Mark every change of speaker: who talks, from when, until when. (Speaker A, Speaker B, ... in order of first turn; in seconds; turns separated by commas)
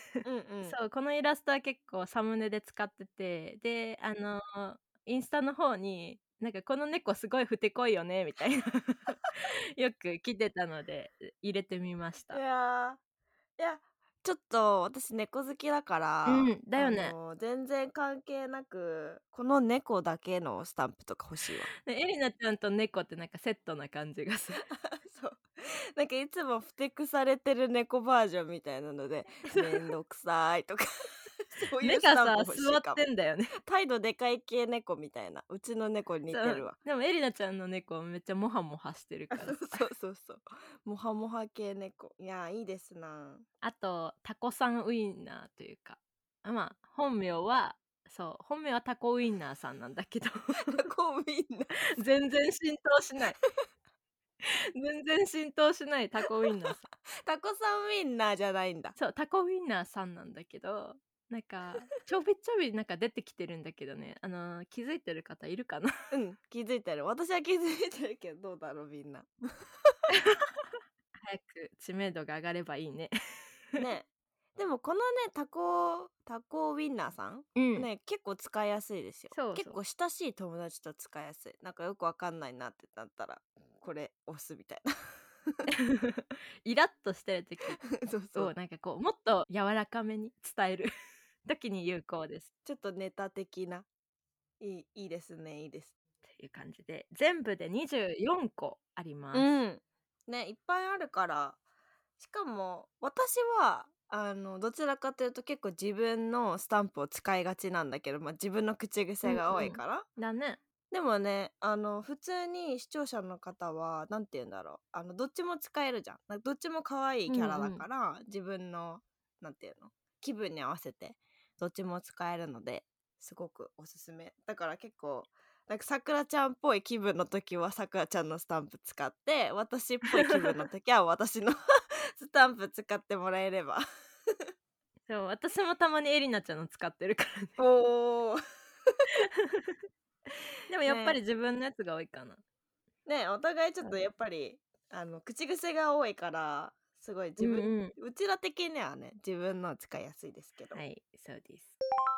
Speaker A: 0.2-0.8, Speaker B: 0.6-12.4, Speaker A: 12.3-13.0, Speaker A: 13.6-21.7, Speaker B: 16.3-17.1, Speaker B: 21.8-24.6, Speaker A: 24.7-25.4, Speaker A: 26.0-30.9, Speaker B: 29.5-29.8, Speaker A: 31.5-33.0, Speaker B: 31.8-33.5, Speaker A: 33.6-36.8, Speaker B: 36.3-39.9, Speaker A: 39.3-43.5, Speaker B: 43.6-50.8, Speaker A: 50.6-51.9, Speaker B: 52.0-53.4, Speaker B: 54.8-56.8, Speaker A: 57.2-59.0, Speaker B: 59.0-65.9, Speaker A: 66.1-69.3, Speaker B: 70.2-70.7, Speaker B: 71.2-73.1, Speaker A: 73.8-84.9, Speaker B: 77.6-77.9, Speaker B: 79.3-79.8, Speaker B: 85.8-87.8, Speaker A: 87.8-88.5, Speaker B: 88.3-90.9, Speaker B: 91.5-92.5, Speaker A: 92.7-93.9, Speaker A: 94.6-96.0, Speaker B: 96.3-99.5, Speaker A: 99.3-101.6, Speaker A: 102.2-110.1, Speaker B: 109.2-110.6, Speaker A: 110.9-131.6, Speaker B: 117.3-117.8, Speaker A: 132.2-133.8, Speaker B: 135.1-137.6, Speaker A: 137.6-138.4, Speaker B: 139.2-139.8, Speaker B: 140.7-142.4, Speaker A: 140.8-141.2, Speaker A: 143.1-150.8, Speaker B: 147.4-147.9, Speaker B: 150.7-151.8